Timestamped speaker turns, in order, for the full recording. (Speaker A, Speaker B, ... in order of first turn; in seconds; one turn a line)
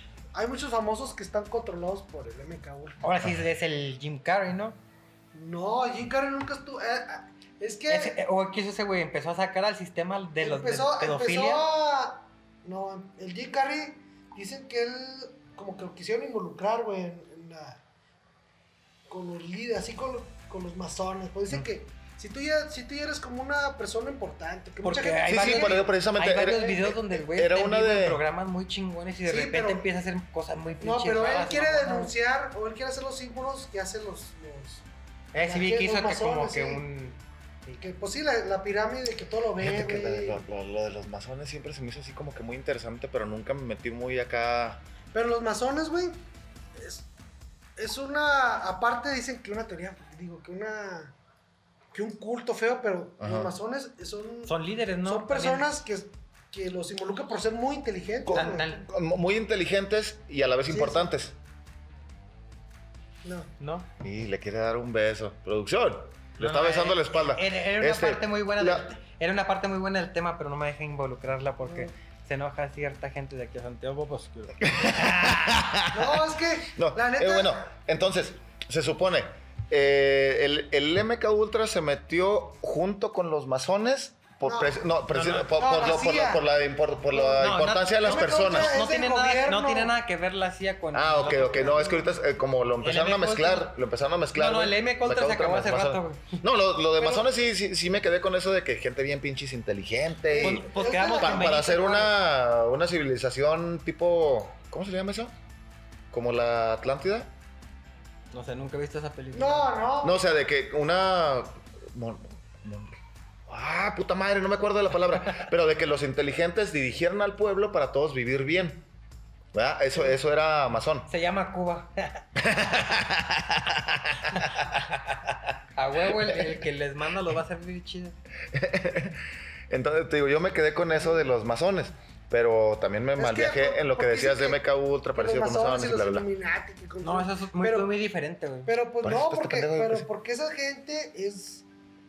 Speaker A: 0.3-3.0
Speaker B: 3.0-4.8
Speaker A: 5.3-8.2
Speaker B: 7.9-11.6
Speaker A: 10.4-17.8
Speaker A: 19.1-25.9
Speaker B: 24.8-32.1
Speaker C: 25.2-28.2
Speaker A: 29.2-29.9
Speaker A: 30.8-34.9
Speaker B: 35.3-37.8
Speaker A: 35.4-36.8
Speaker A: 37.8-40.4
Speaker C: 39.6-44.8
Speaker A: 45.1-46.2
Speaker A: 46.8-47.1
Speaker A: 47.8-51.1
Speaker A: 51.9-58.8
Speaker C: 53.2-53.5
Speaker B: 54.5-55.7
Speaker C: 58.2-61.4
Speaker B: 58.3-58.8
Speaker A: 60.7-61.1
Speaker A: 63.2-63.5
Speaker B: 63.6-63.9
Speaker C: 64.0-68.8
Speaker B: 66.4-75.5
Speaker A: 71.6-71.9
Speaker C: 74.6-76.2
Speaker A: 75.9-77.6
Speaker C: 76.7-88.8
Speaker A: 84.5-84.8
Speaker A: 85.5-86.4
Speaker B: 87.1-92.0
Speaker A: 88.0-90.0
Speaker C: 90.9-105.3
Speaker A: 91.4-92.1
Speaker B: 92.8-93.7
Speaker B: 94.3-96.4
Speaker B: 97.0-97.2
Speaker A: 100.3-101.9
Speaker B: 100.4-102.1
Speaker C: 106.1-107.3
Speaker B: 108.3-109.7
Speaker A: 109.3-110.2
Speaker C: 110.0-113.0
Speaker C: 113.5-118.9
Speaker C: 119.5-121.1
Speaker B: 121.1-122.2
Speaker C: 122.4-124.8
Speaker B: 124.4-124.8
Speaker B: 125.8-128.2
Speaker C: 126.1-126.5
Speaker C: 128.5-136.3
Speaker A: 133.2-134.6
Speaker A: 135.1-137.9
Speaker B: 137.0-138.7
Speaker A: 138.7-141.7
Speaker C: 139.0-140.1